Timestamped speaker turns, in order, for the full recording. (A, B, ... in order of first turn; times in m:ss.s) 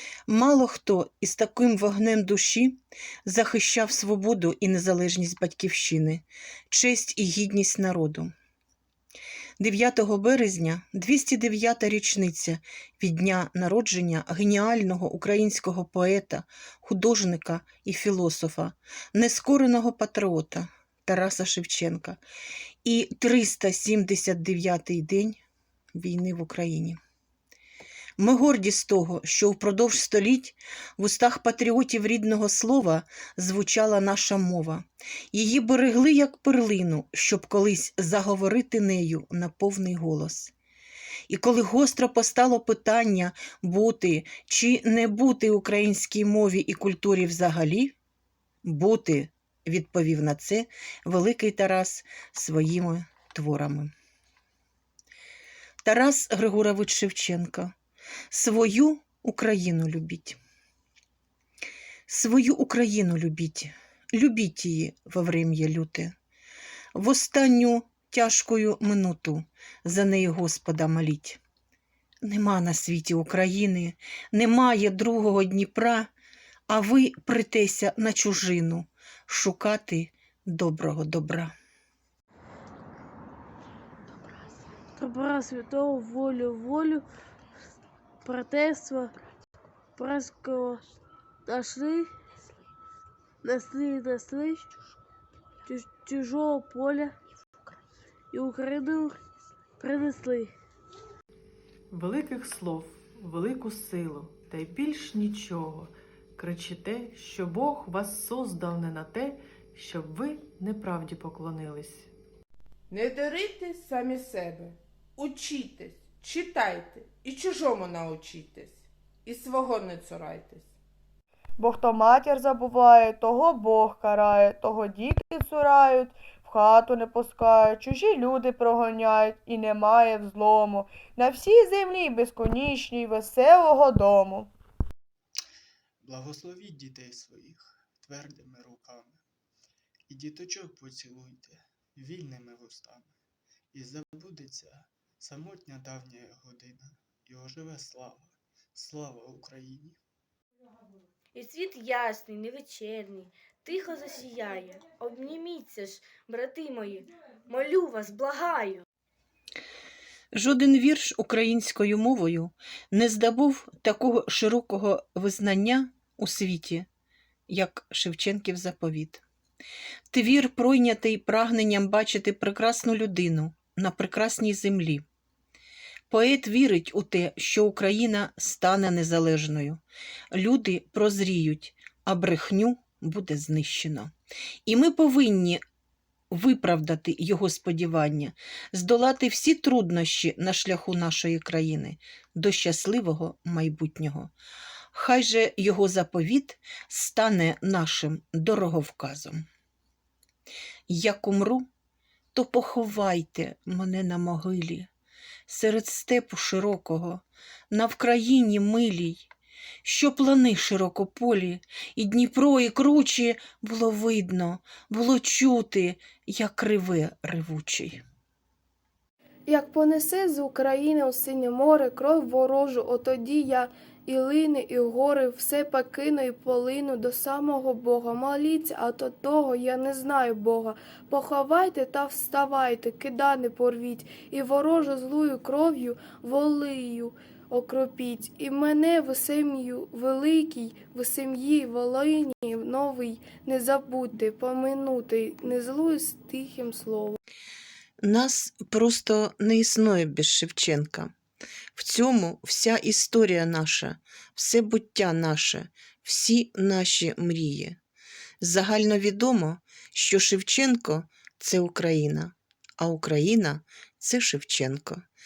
0:00.3-0:08.3 A
0:09.6-0:22.2 A
0:22.8-0:25.4 A
0:26.0-0:27.0 A
0:28.2-0:40.5 A
0:41.3-0:48.0 A
0:48.6-0:53.9 A
0:55.8-0:57.7 A
0:58.3-1:00.4 A
1:02.1-1:06.1 A
1:07.0-1:11.4 A
1:12.2-1:16.1 A
1:16.7-1:21.5 A
1:25.0-1:27.0 B
1:28.2-1:29.2 B
1:30.0-1:30.9 B
1:31.5-1:32.1 B
1:33.4-1:34.7 B
1:35.7-1:37.2 B
1:38.3-1:39.2 B
1:39.8-1:40.5 B
1:41.9-1:52.1 C
1:52.9-2:00.7 D
2:01.6-2:14.5 E
2:16.0-2:19.2 F
2:20.1-2:23.1 F
2:23.7-2:30.0 F
2:31.3-2:38.8 G
2:40.3-2:46.9 A
2:47.5-2:49.2 A
2:50.1-2:55.0 A
2:56.1-3:04.1 A
3:04.7-3:05.6 A
3:06.3-3:14.3 A
3:14.9-3:19.4 A
3:20.9-3:21.7 A
3:22.3-3:24.9 A
3:25.5-3:29.3 A
3:29.8-3:38.0 A
3:39.5-4:07.2 H
4:08.0-4:11.1 A
4:11.8-4:17.8 A
4:18.4-4:25.1 A